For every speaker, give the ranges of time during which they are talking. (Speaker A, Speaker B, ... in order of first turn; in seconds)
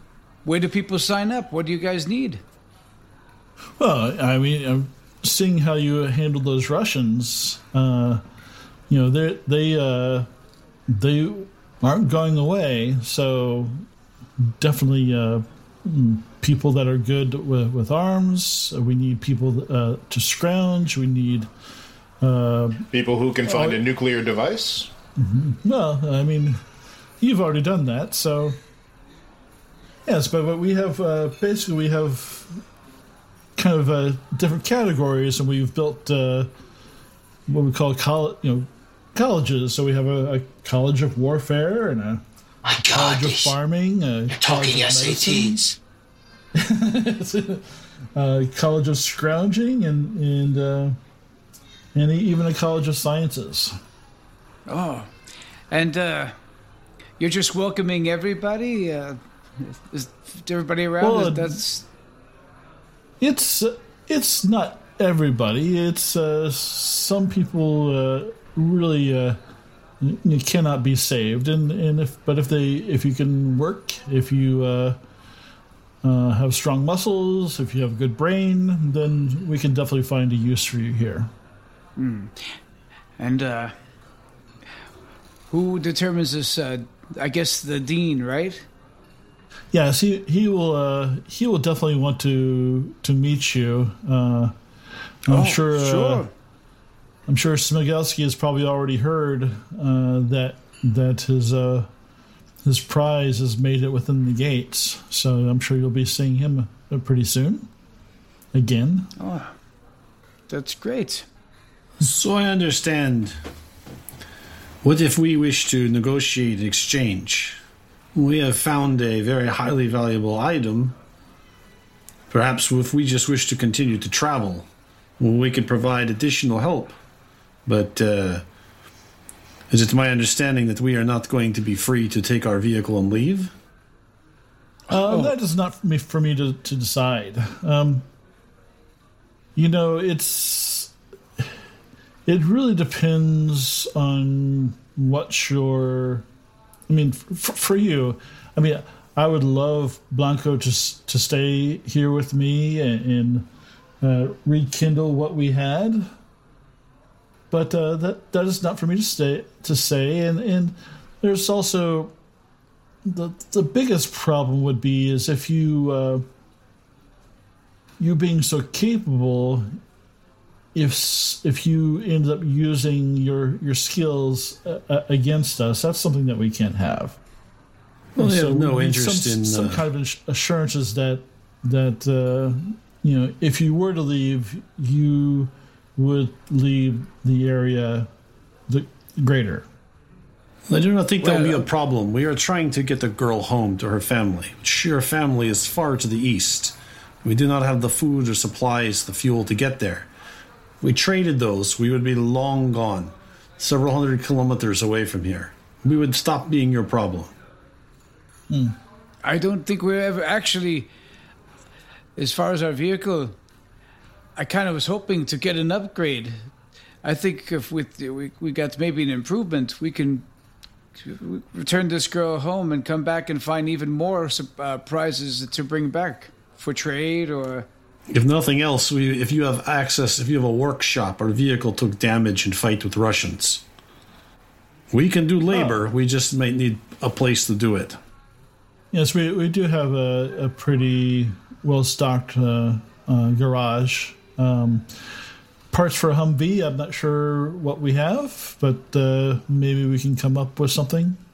Speaker A: 0.4-2.4, 54.7-55.1, 55.7-56.3, 57.2-61.9, 82.0-82.5, 83.2-83.7, 85.5-88.7, 95.3-96.3, 109.2-109.5, 110.5-111.2, 134.9-135.3, 191.2-191.6, 209.2-210.9, 212.2-213.3, 214.4-216.5, 217.0-220.3, 221.0-227.7
Speaker B: 3.8-8.2, 8.9-10.3, 10.9-13.8, 14.4-21.5, 22.2-22.9, 23.4-23.8, 25.2-26.6, 27.2-28.6, 30.1-32.6, 33.5-36.5, 37.5-42.2, 42.9-45.6, 46.5-51.0, 51.9-53.7, 61.0-61.6, 63.2-69.4, 70.0-75.0, 76.0-81.3, 89.7-94.5, 95.2-96.3, 97.3-101.9, 102.6-107.7, 108.5-109.1, 134.9-138.1, 139.6-140.9, 142.2-146.2, 146.9-153.5, 154.0-156.1, 157.5-162.1, 163.0-166.2, 168.0-169.8, 170.7-177.2, 178.2-188.1, 188.7-189.7, 208.5-208.8, 235.5-235.8, 238.9-244.9, 245.7-251.2
Speaker C: 22.9-24.9
Speaker D: 42.6-43.5, 44.3-45.8
Speaker E: 112.0-113.3, 114.8-117.6, 118.1-121.0, 122.3-124.7, 125.2-126.9, 127.7-128.4, 129.7-133.5, 178.1-179.8, 190.7-200.1, 200.8-207.3, 228.1-233.6, 234.9-238.0